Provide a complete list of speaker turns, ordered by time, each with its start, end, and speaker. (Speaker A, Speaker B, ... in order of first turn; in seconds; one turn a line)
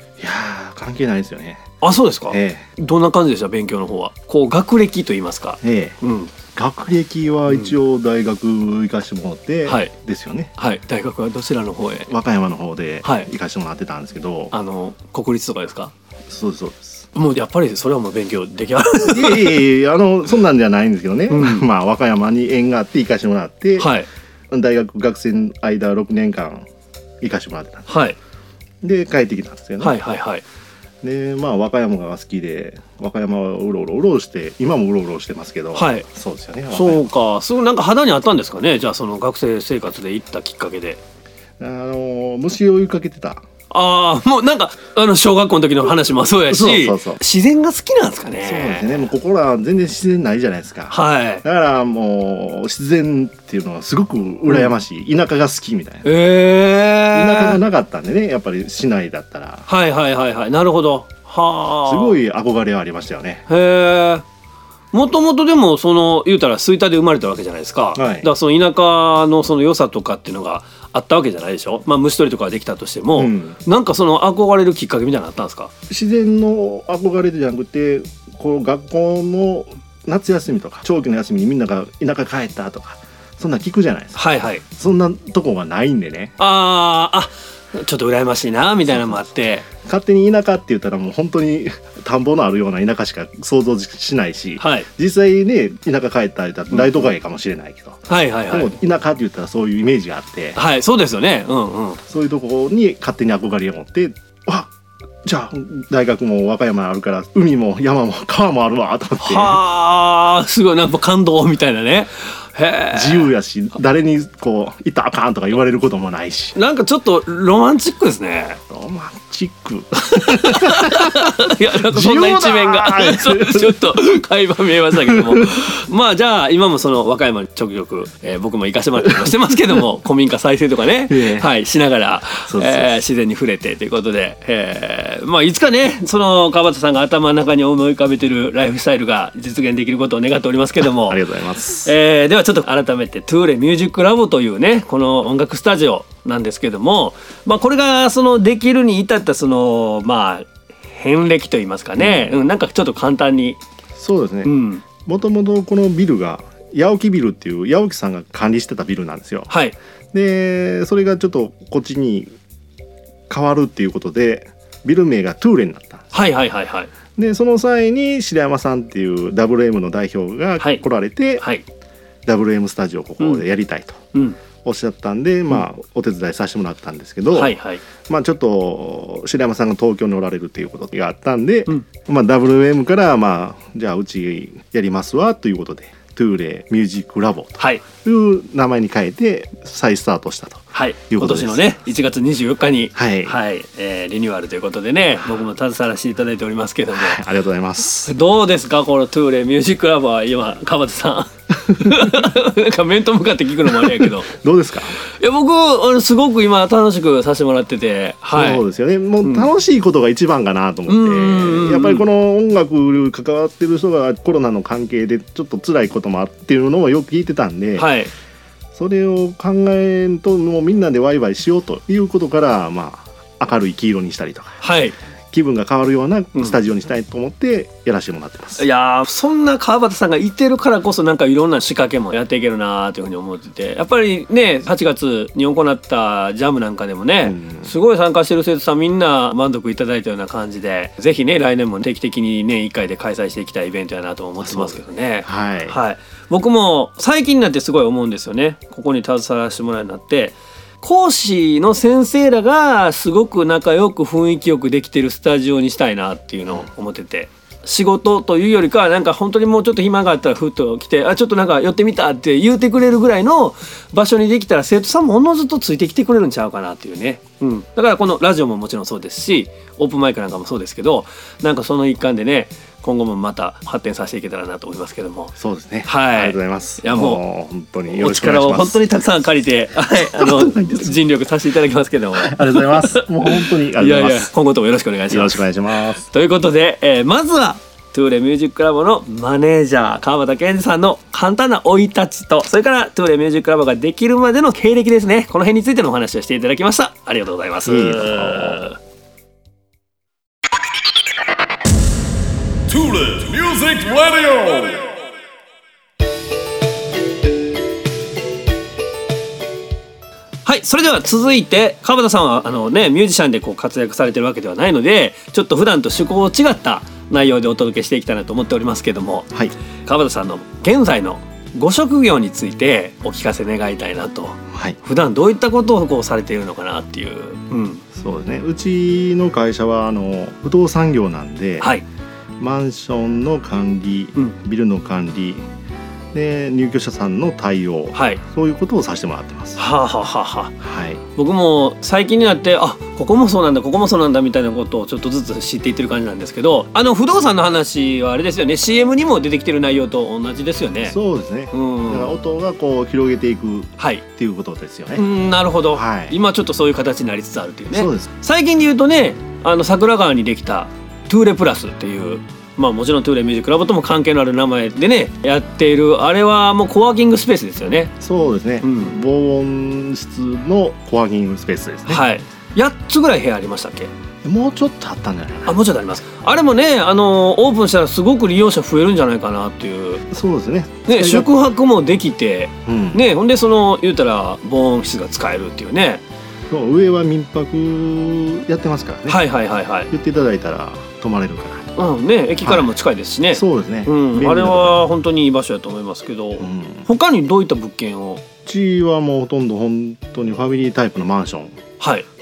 Speaker A: 0.2-1.7
Speaker B: 1.8-6.3
Speaker A: 2.3-2.6
Speaker A: 5.6-6.0
Speaker A: 6.5-10.5
Speaker B: 9.7-9.9
Speaker B: 10.6-12.1
Speaker A: 12.1-14.5
Speaker B: 13.0-13.3
Speaker B: 14.5-15.9
Speaker A: 16.3-17.0
Speaker B: 17.1-19.6
Speaker A: 19.0-23.9
Speaker B: 21.3-21.7
Speaker B: 23.8-24.1
Speaker A: 24.5-26.6
Speaker A: 27.2-27.9
Speaker B: 27.9-28.2
Speaker A: 28.8-30.0
Speaker B: 29.8-30.4
Speaker A: 31.0-37.1
Speaker B: 35.7-36.0
Speaker B: 36.7-41.0
Speaker A: 41.6-43.4
Speaker B: 43.7-49.1
Speaker A: 46.5-47.2
Speaker A: 48.4-56.0
Speaker B: 50.9-51.4
Speaker B: 56.0-57.6
Speaker A: 57.1-59.7
Speaker B: 59.7-62.2
Speaker A: 61.9-63.5
Speaker B: 63.5-64.2
Speaker B: 64.9-75.7
Speaker A: 67.9-68.3
Speaker A: 73.1-73.6
Speaker A: 75.9-86.3
Speaker B: 84.2-84.6
Speaker B: 86.4-89.7
Speaker A: 89.8-100.6
Speaker B: 94.6-94.9
Speaker B: 98.1-98.7
Speaker B: 100.5-102.0
Speaker A: 102.1-104.7
Speaker A: 105.2-109.6
Speaker B: 109.2-113.3
Speaker A: 112.9-116.5
Speaker B: 116.5-118.6
Speaker A: 118.7-123.8
Speaker B: 120.1-141.2
Speaker A: 125.0-125.5
Speaker A: 131.1-131.5
Speaker A: 132.5-132.9
Speaker A: 140.9-141.9
Speaker B: 141.8-153.6
Speaker A: 152.0-152.3
Speaker A: 153.9-154.5
Speaker B: 154.4-154.8
Speaker A: 155.0-159.5
Speaker B: 159.5-159.8
Speaker A: 160.1-162.3
Speaker A: 163.3-166.1
Speaker B: 166.1-166.9
Speaker A: 167.2-171.4
Speaker A: 172.2-174.0
Speaker A: 174.6-191.7
Speaker B: 177.3-177.8
Speaker B: 187.6-187.8
Speaker B: 190.7-197.2
Speaker A: 192.9-193.3
Speaker A: 196.9-198.1
Speaker B: 198.1-204.3
Speaker A: 201.8-202.2
Speaker A: 203.7-205.0
Speaker B: 205.2-208.6
Speaker A: 208.3-217.9
Speaker B: 209.2-209.5
Speaker B: 210.9-212.1
Speaker B: 217.8-218.1
Speaker A: 218.7-224.6
Speaker B: 224.6-224.9
Speaker A: 225.3-228.6
Speaker B: 228.6-275.3
Speaker A: 237.2-237.7
Speaker A: 244.5-245.8
Speaker A: 275.4-278.8
Speaker B: 275.8-277.2
Speaker B: 277.9-298.8
Speaker A: 280.1-280.9
Speaker A: 282.2-284.3
Speaker A: 285.1-286.0
Speaker A: 297.6-298.6
Speaker C: 302.7-304.9
Speaker B: 310.4-319.3
Speaker B: 319.8-327.8
Speaker A: 327.9-331.7
Speaker B: 331.6-331.9
Speaker A: 332.4-335.4
Speaker A: 336.1-339.6
Speaker B: 337.9-338.2
Speaker B: 339.6-340.5
Speaker A: 340.6-341.0
Speaker B: 341.1-350.9
Speaker A: 350.9-355.0
Speaker B: 351.5-352.1
Speaker B: 353.8-354.0
Speaker B: 354.9-367.9
Speaker A: 355.7-356.1
Speaker A: 357.7-358.1
Speaker A: 368.0-372.0
Speaker B: 368.6-368.9
Speaker B: 371.9-373.9
Speaker A: 374.2-375.6
Speaker B: 375.4-380.0
Speaker A: 380.1-381.3
Speaker B: 380.9-386.0
Speaker A: 382.6-383.0
Speaker A: 386.5-389.2
Speaker B: 389.1-389.9
Speaker A: 389.9-391.7
Speaker B: 391.8-398.2
Speaker A: 393.3-394.8
Speaker A: 396.4-396.9
Speaker A: 398.4-401.6
Speaker B: 401.8-402.1